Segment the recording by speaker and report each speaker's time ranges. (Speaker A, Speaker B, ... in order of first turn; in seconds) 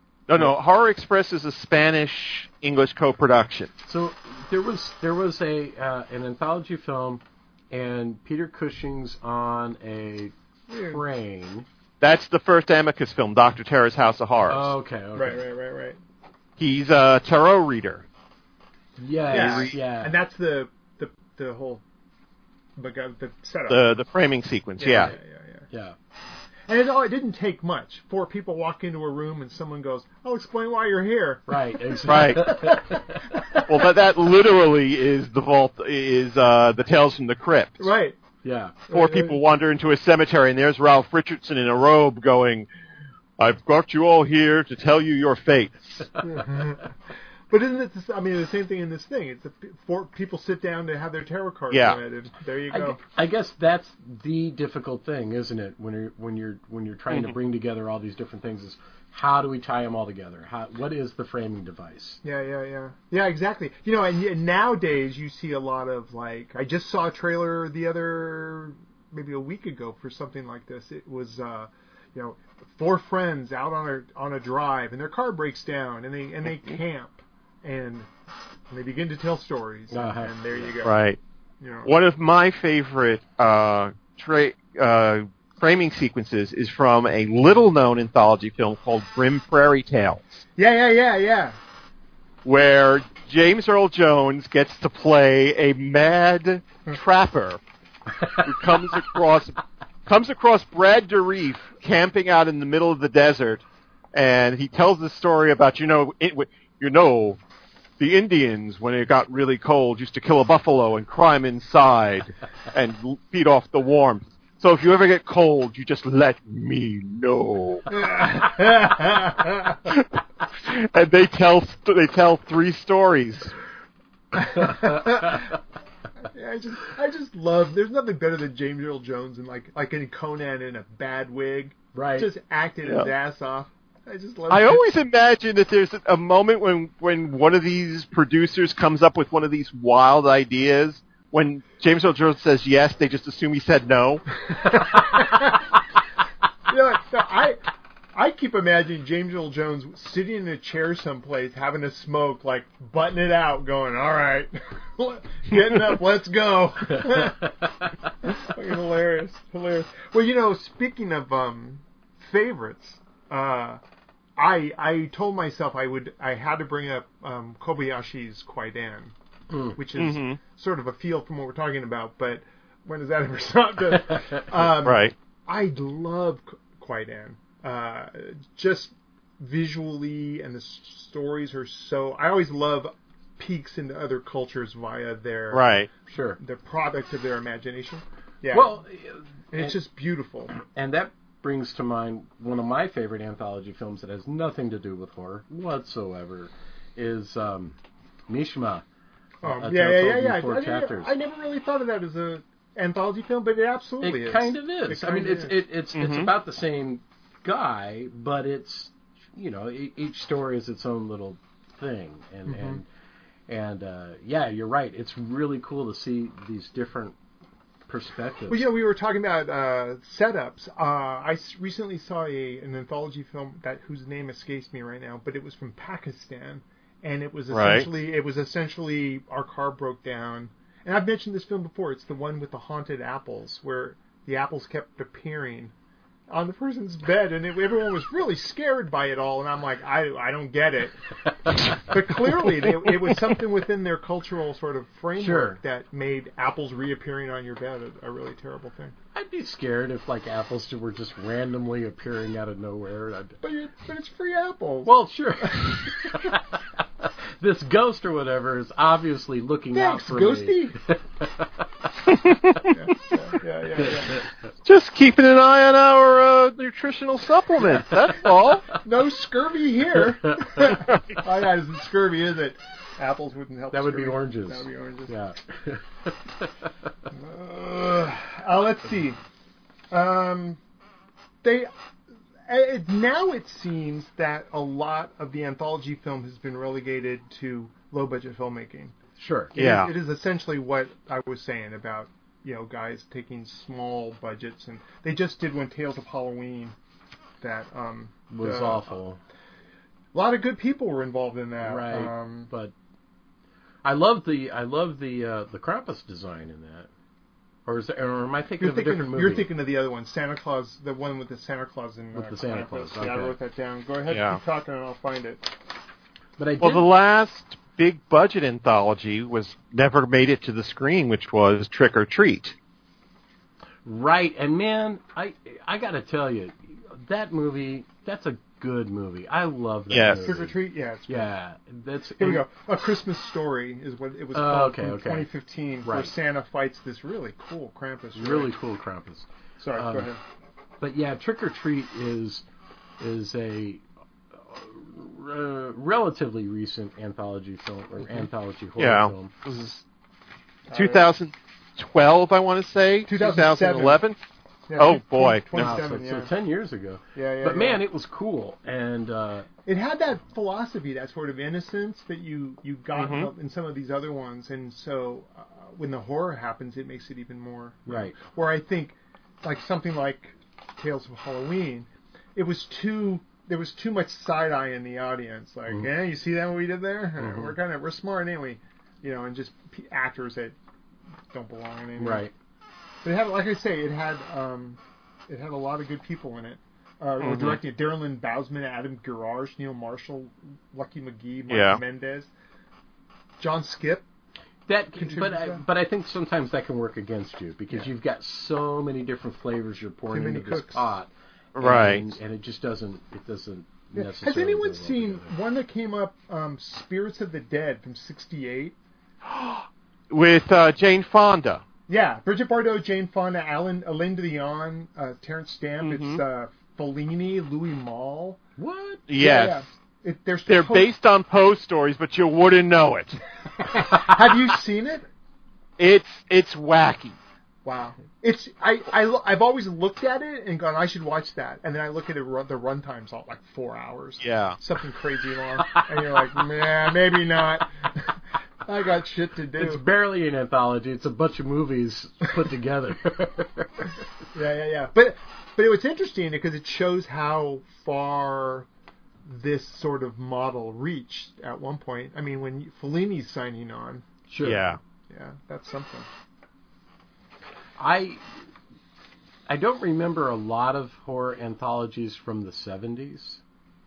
Speaker A: 0.3-3.7, 12.0-14.7, 16.6-18.1, 19.3-19.8, 23.7-25.1, 32.1-32.4, 33.7-37.9, 38.9-42.7, 43.4-46.1, 51.7-52.0, 57.1-57.4, 80.8-81.2, 81.8-90.4, 92.4-97.6, 98.4-107.4, 108.0-117.9, 119.8-123.5, 132.8-133.1, 134.5-144.2, 169.9-170.4, 174.8-175.1, 185.5-185.9, 205.9-206.3, 227.5-227.9, 262.1-262.8, 264.6-268.7, 289.5-289.9, 314.1-314.4, 316.6-322.6, 329.9-330.3, 348.8-349.8, 350.7-354.2, 354.8-355.8, 362.9-363.3, 387.2-387.6, 391.5-391.8, 401.6-402.2, 409.2-411.6, 415.8-416.2, 419.1-419.6, 420.5-423.2, 425.8-427.2, 434.2-434.6, 454.4-454.8
Speaker B: 3.9-11.7, 14.5-15.4, 19.0-20.1, 25.7-25.9, 31.5-33.2, 38.4-38.8, 52.7-62.2, 79.9-80.7, 124.5-125.5, 131.9-132.3, 156.9-157.7, 169.5-169.8, 174.1-174.4, 186.1-186.4, 188.5-189.8, 190.5-197.8, 198.3-198.8, 199.4-201.1, 204.0-212.9, 213.5-217.2, 217.9-218.6, 245.2-245.6, 249.1-253.4, 254.8-261.7, 263.8-264.2, 270.2-270.7, 273.7-276.9, 289.2-289.5, 298.3-299.2, 301.6-302.7, 303.8-306.9, 307.6-309.5, 312.1-313.4, 316.4-316.9, 323.8-330.6, 331.1-332.4, 334.3-335.3, 335.8-336.1, 338.1-340.1, 340.8-342.4, 343.0-343.8, 344.3-349.3, 355.5-359.5, 367.9-368.1, 377.2-377.6, 382.0-382.3, 387.3-387.6, 394.7-405.3, 418.6-419.0, 435.7-436.1, 439.6-444.1, 454.3-454.6, 457.8-458.3, 459.5-463.4
Speaker C: 10.7-11.0, 15.1-16.0, 19.3-21.8, 22.8-24.0, 24.8-25.7, 26.7-33.6, 37.8-38.2, 38.9-39.4, 46.2-47.0, 47.5-53.0, 62.2-78.1, 78.7-81.0, 81.6-81.9, 90.5-91.6, 117.9-119.8, 124.3-125.6, 126.2-134.8, 144.5-145.6, 146.7-147.6, 148.1-163.8, 164.4-169.1, 169.7-185.7, 186.4-188.8, 189.5-190.5, 199.4-205.6, 212.5-212.8, 218.5-235.7, 236.3-248.9, 253.4-256.3, 259.7-260.8, 262.7-264.2, 268.8-275.1, 277.1-279.2, 279.9-280.6, 281.4-281.7, 282.5-288.9, 289.5-296.8, 297.4-299.0, 300.1-302.5, 308.6-315.5, 330.2-331.3, 332.2-338.5, 339.6-340.2, 350.7-351.1, 353.1-354.0, 354.7-356.3, 357.1-357.8, 359.6-380.6, 381.3-382.3, 383.0-392.3, 393.4-394.1, 395.0-395.6, 400.1-400.9, 403.9-408.7, 411.9-418.4, 419.2-420.9, 423.6-425.1, 427.6-439.8, 444.3-448.7, 449.2-454.1, 455.1-456.1